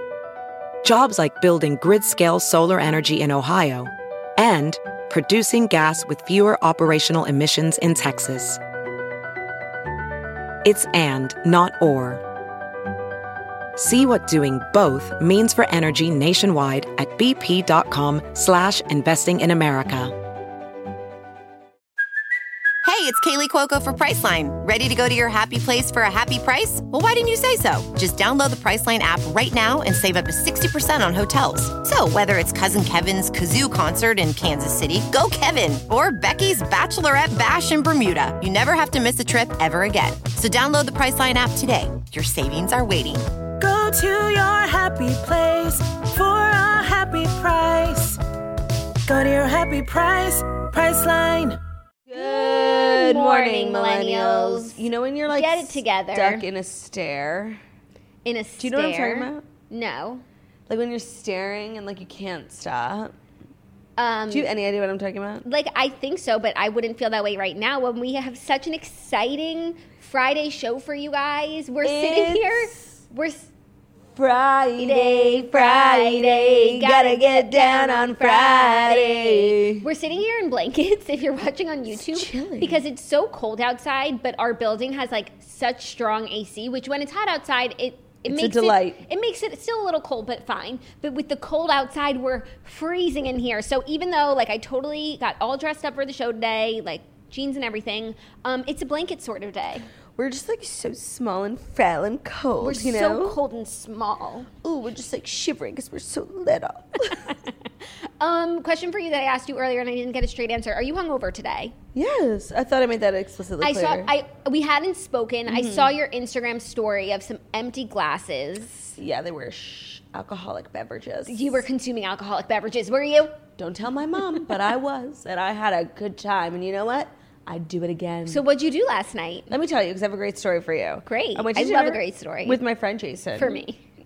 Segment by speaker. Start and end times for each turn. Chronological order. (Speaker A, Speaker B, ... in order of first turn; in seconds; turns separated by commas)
Speaker A: 0.8-8.6, Speaker A: 10.6-12.2, Speaker A: 13.8-20.1, Speaker B: 22.8-43.3, Speaker C: 43.6-48.2, Speaker C: 49.1-51.6, Speaker D: 52.1-57.6, Speaker E: 52.1-56.5, Speaker E: 58.2-60.2, Speaker D: 58.6-59.4, Speaker D: 60.7-63.1, Speaker E: 64.0-64.5, Speaker D: 64.3-65.4, Speaker E: 65.4-73.5, Speaker D: 71.8-72.9, Speaker D: 74.2-79.8, Speaker E: 74.8-99.9, Speaker D: 82.0-82.8, Speaker D: 88.2-89.0, Speaker D: 100.2-103.4, Speaker E: 102.6-104.5, Speaker D: 104.6-107.3, Speaker E: 108.2-111.7, Speaker D: 111.9-114.1, Speaker E: 113.6-119.0, Speaker D: 115.5-115.9, Speaker D: 119.0-121.6, Speaker E: 121.2-123.4, Speaker D: 123.6-128.4, Speaker E: 128.3-129.5, Speaker D: 129.5-133.6, Speaker E: 131.1-132.6, Speaker E: 133.3-133.8